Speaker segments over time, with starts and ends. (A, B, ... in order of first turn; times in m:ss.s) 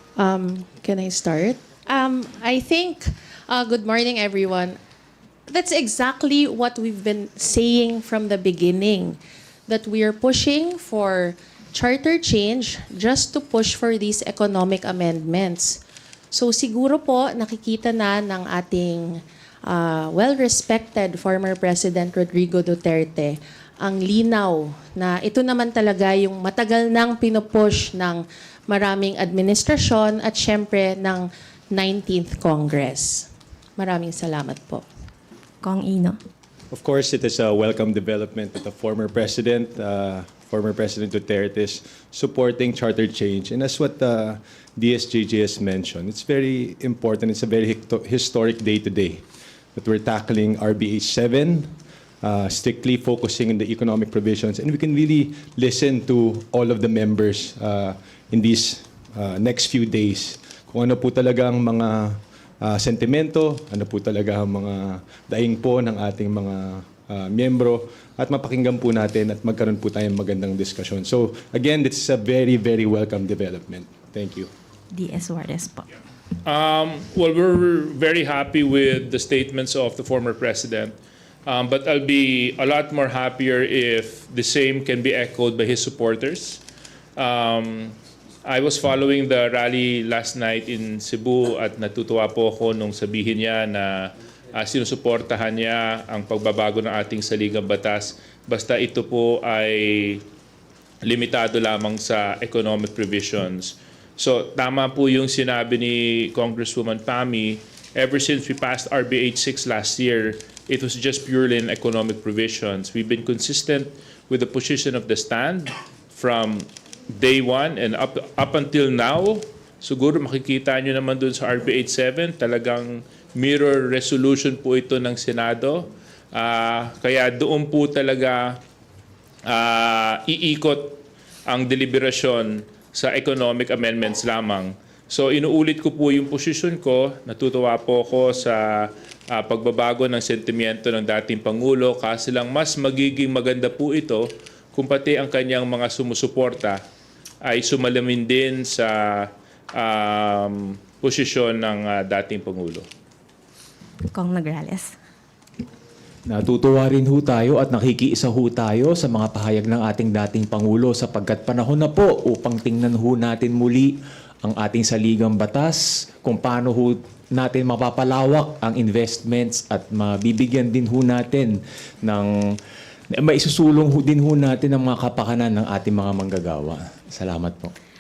0:00.2-0:04.8 A
0:05.5-0:15.8 A
0:16.3-0:19.1 A
0:19.7-0:34.8 A
0:35.6-0:36.2 B
0:36.7-0:49.2 C
0:49.8-1:14.5 C
1:14.9-1:15.9 B
1:16.4-1:21.0 D
1:21.5-1:26.6 D
1:27.2-1:40.2 D
1:41.0-2:08.6 D
2:09.5-2:26.8 D
2:27.4-2:32.9 D
2:34.1-2:34.9 B
2:36.3-2:52.3 E
2:53.1-2:57.7 E